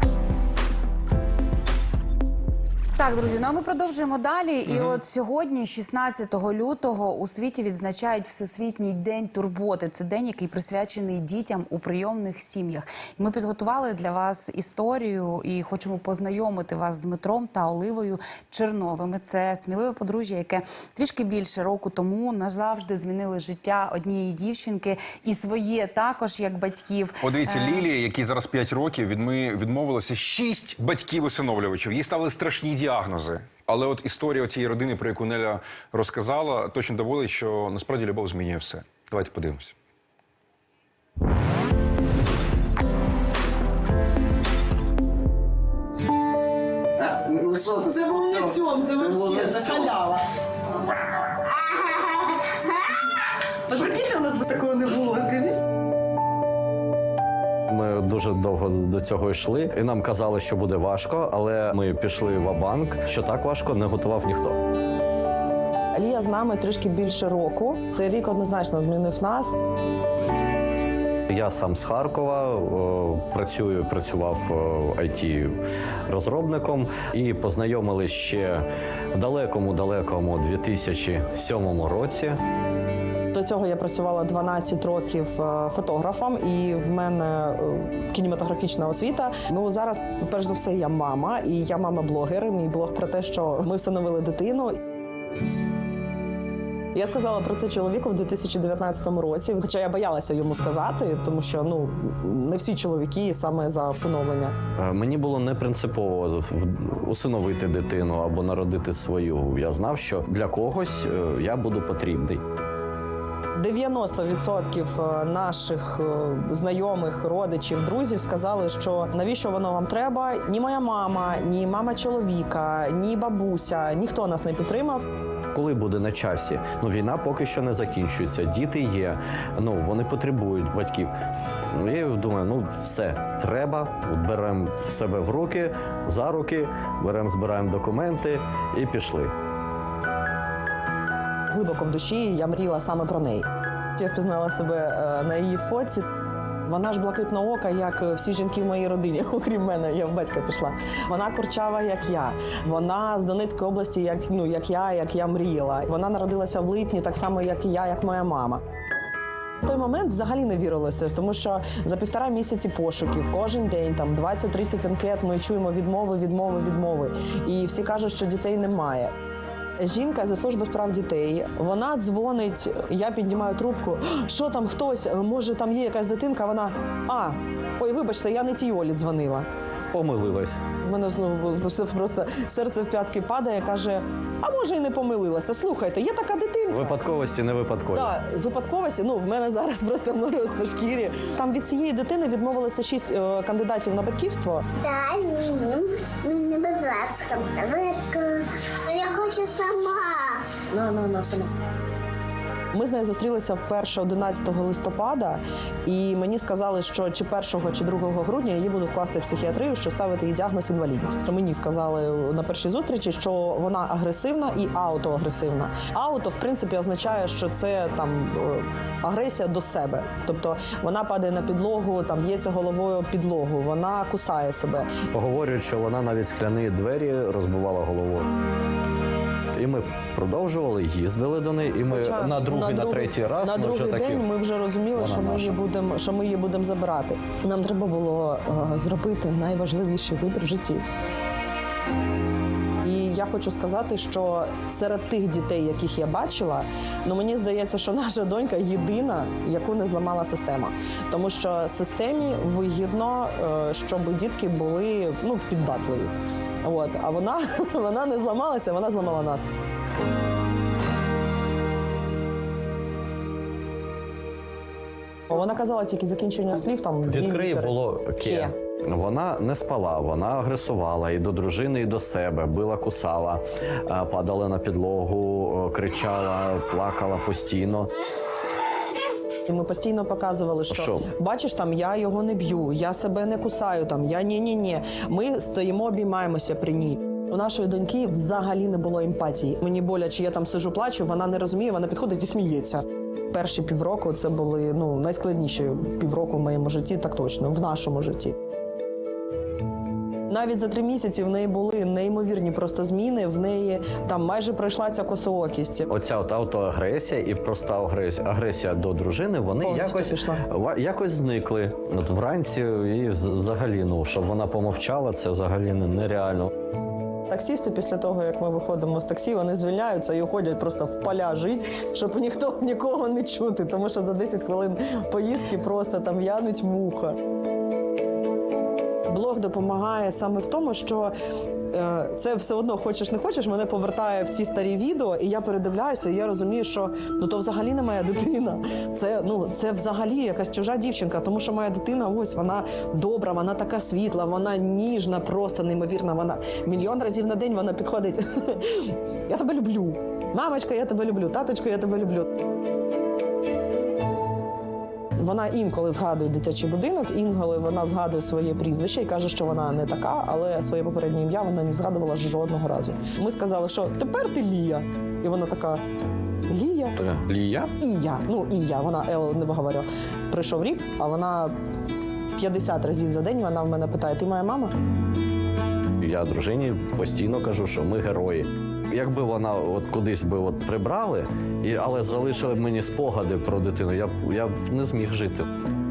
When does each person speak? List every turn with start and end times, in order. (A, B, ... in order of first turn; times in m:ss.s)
0:03.0-0:27.9 A
0:27.2-0:39.7 B
0:47.0-0:50.3 C
0:53.7-0:55.6 C
0:57.7-1:04.6 D
1:05.9-1:09.5 C
1:11.3-1:22.4 D
1:23.3-1:34.8 C
1:36.9-1:44.6 C
1:44.8-1:52.4 D
1:53.6-2:05.0 C
2:05.5-2:11.1 D
2:11.7-2:19.3 D
2:21.5-2:26.1 C
2:26.6-2:38.6 C
2:39.6-2:49.1 C
2:49.8-2:59.5 C
2:59.9-3:00.6 D
3:00.8-3:07.0 C
3:06.7-3:08.1 D
3:07.9-3:14.7 C
3:14.8-3:20.4 E
3:20.7-3:21.5 C
3:22.7-3:44.9 C
3:45.1-3:48.3 D
3:49.5-3:54.3 D
3:51.9-4:00.8 C
3:55.0-3:55.6 D
4:02.8-4:19.5 C
4:25.3-4:28.5 C
4:27.1-4:37.9 D
4:39.5-4:58.4 C
4:40.7-4:41.1 D
5:00.3-5:05.9 C
5:05.9-5:16.5 D
5:09.6-5:10.4 C
5:17.3-5:27.2 C
5:29.1-5:31.1 C
5:31.7-5:52.3 C
5:55.2-6:05.8 C
6:06.5-6:07.0 C
6:07.0-6:07.7 D
6:07.8-6:11.6 C
6:12.4-6:14.7 C
6:16.0-6:25.5 D